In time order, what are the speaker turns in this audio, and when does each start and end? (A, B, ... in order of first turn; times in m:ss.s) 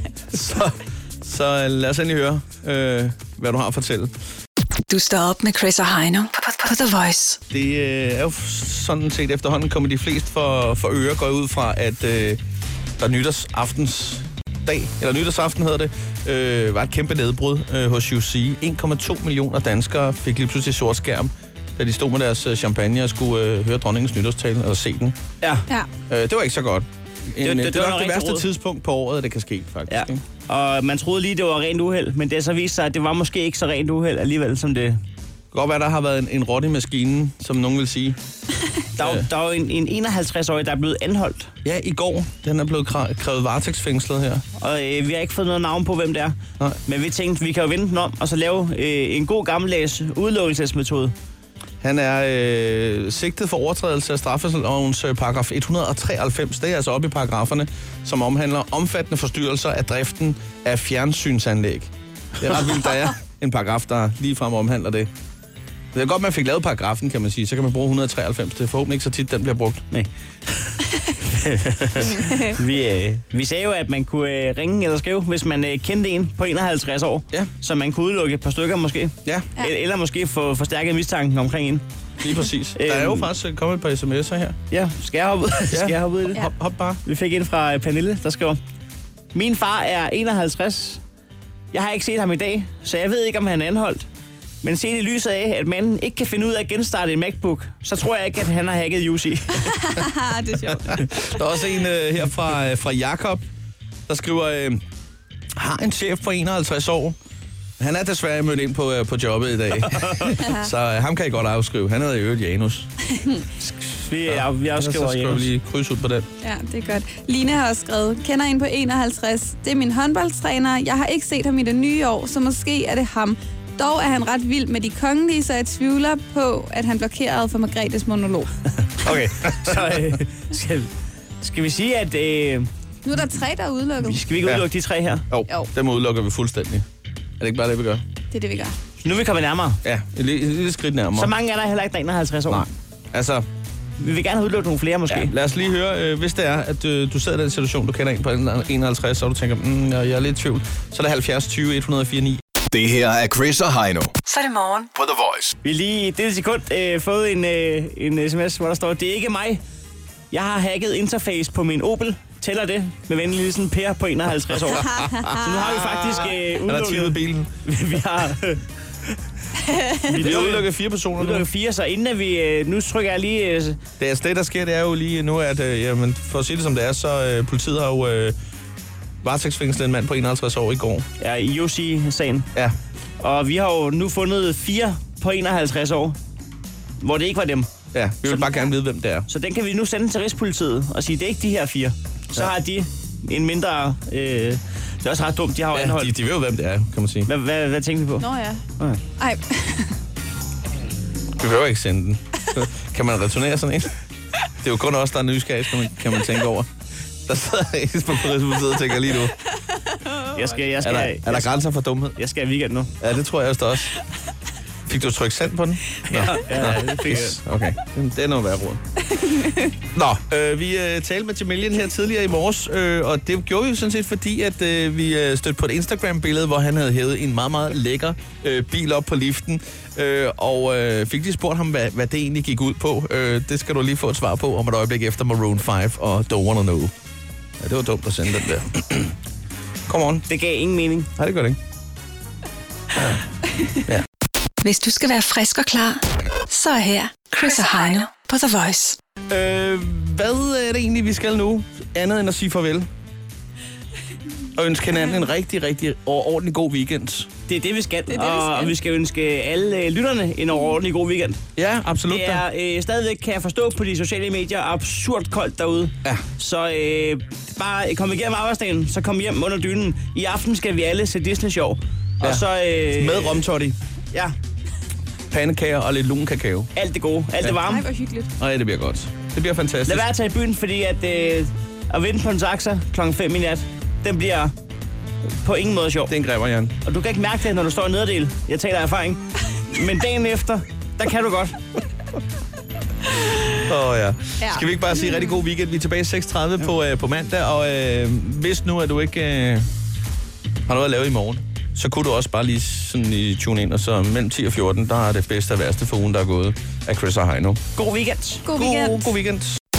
0:00.3-0:04.1 A
0:04.9-0:07.4 B
0:07.5-0:12.4 A
0:13.0-0:25.2 A
0:26.1-0:30.2 A
0:27.4-0:28.5 C
0:29.9-0:35.0 C
0:35.5-0:38.2 A
0:39.0-0:41.5 C
0:39.0-0:39.3 A
0:41.6-0:44.4 A
0:44.6-0:51.1 C
0:51.8-1:05.1 A
1:05.9-1:09.9 A
1:09.9-1:21.8 C
1:12.1-1:12.5 D
1:22.2-1:24.6 A
1:22.8-1:23.3 C
1:24.7-1:26.4 C
1:25.7-1:27.0 A
1:27.0-1:28.6 C
1:29.3-1:31.0 C
1:31.7-1:34.0 C
1:34.6-1:39.9 C
1:39.6-1:41.4 D
1:40.9-1:43.4 A
1:44.1-1:44.8 A
1:45.6-1:47.2 A
1:47.8-1:52.9 A
1:49.8-1:50.3 C
1:53.2-1:53.4 D
1:53.6-1:55.5 C
1:54.3-1:56.3 A
1:56.4-2:08.5 D
2:08.9-2:10.9 C
2:11.4-2:12.7 C
2:13.0-2:14.2 D
2:14.0-2:15.2 C
2:15.3-2:16.8 A
2:17.4-2:18.0 A
2:18.3-2:18.7 D
2:19.0-2:19.8 C
2:19.8-2:21.3 A
2:21.1-2:22.6 C
2:22.5-2:23.4 A
2:24.0-2:25.3 C
2:25.1-2:32.4 A
2:32.7-2:34.2 E
2:34.2-2:34.9 B
2:34.9-2:35.5 E
2:35.6-2:39.6 C
2:40.3-2:49.1 C
2:45.0-2:45.4 D
2:45.0-2:47.5 A
2:49.7-2:50.0 D
2:49.9-2:53.8 C
2:50.2-2:51.5 A
2:54.0-2:58.3 A
2:59.2-3:01.1 A
3:01.2-3:02.5 C
3:03.2-3:06.2 C
3:07.0-3:07.7 C
3:07.9-3:09.3 A
3:09.3-3:16.1 C
3:15.7-3:17.3 A
3:17.3-3:19.0 C
3:18.2-3:18.6 D
3:19.2-3:20.0 D
3:21.4-3:23.9 A
3:24.6-3:26.7 A
3:27.2-3:29.4 A
3:29.9-3:30.4 D
3:30.3-3:31.5 C
3:30.8-3:32.1 A
3:32.2-3:32.9 C
3:33.0-3:33.9 A
3:34.8-3:38.8 A
3:36.0-3:37.4 C
3:39.1-3:39.7 D
3:39.9-3:56.9 A
3:57.6-3:59.1 A
3:59.9-4:00.2 A
4:00.3-4:01.1 C
4:01.2-4:01.6 A
4:03.0-4:03.2 A
4:04.6-4:09.0 B
4:09.3-4:12.9 A
4:14.5-4:17.3 A
4:17.5-4:21.4 C
4:18.1-4:18.7 D
4:21.6-4:22.4 A
4:22.1-4:33.4 C
4:32.2-4:33.8 A
4:35.3-4:36.7 A
4:36.8-4:37.8 C
4:37.6-4:38.3 D
4:38.4-4:40.1 A
4:39.8-4:44.5 C
4:45.4-4:46.1 C
4:46.1-4:46.8 A
4:46.8-4:51.6 C
4:53.6-4:59.7 A
4:54.4-4:55.4 D
5:00.7-5:07.6 A
5:07.8-5:08.4 C
5:08.4-5:09.1 D
5:08.5-5:09.6 A